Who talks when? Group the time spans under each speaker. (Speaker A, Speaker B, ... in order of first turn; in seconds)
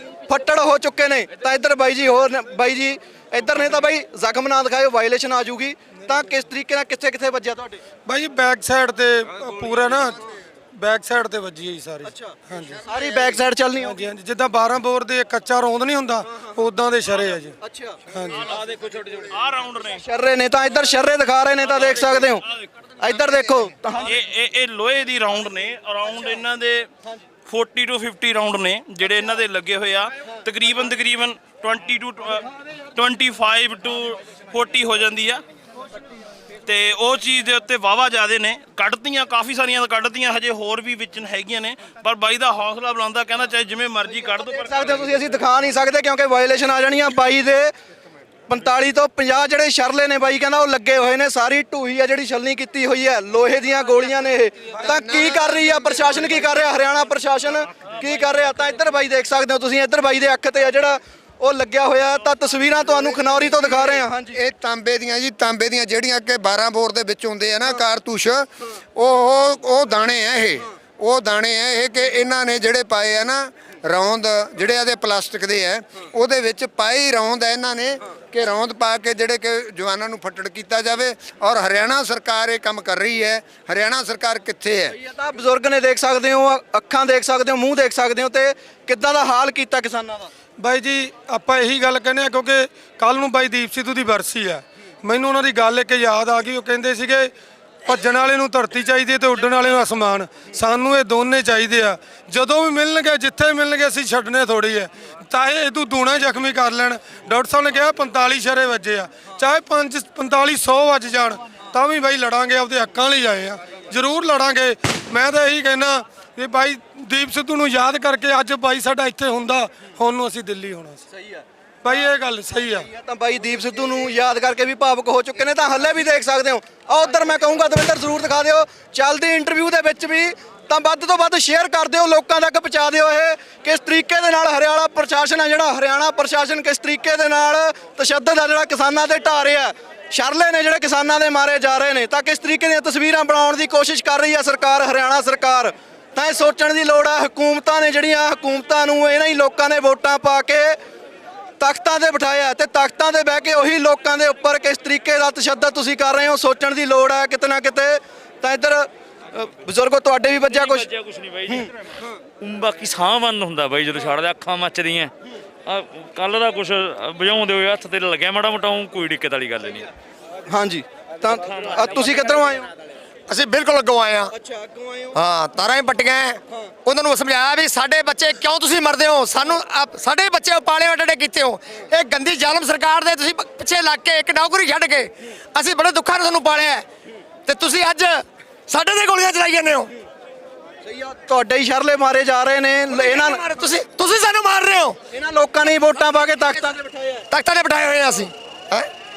Speaker A: 0.2-7.8, 12.0-14.1, 17.6-18.0, 20.0-22.4, 23.0-24.1, 44.2-47.7, 48.5-64.4, 84.9-90.3, 121.1-121.4, 122.7-150.8, 151.6-160.9, 170.5-172.7, 174.3-175.1, 190.8-193.4, 195.1-197.2
Speaker B: 8.1-10.2, 10.8-12.8, 13.8-17.5, 18.1-18.4, 90.6-97.3, 97.8-121.0, 121.8-122.9
Speaker C: 18.3-20.0, 24.0-26.9, 27.4-35.4, 36.6-45.1
Speaker D: 54.8-55.8, 64.3-84.9
Speaker E: 160.5-161.7, 162.4-165.1, 165.7-169.9
Speaker F: 173.3-174.3, 175.1-186.8, 187.4-189.9, 192.9-195.0, 197.3-198.9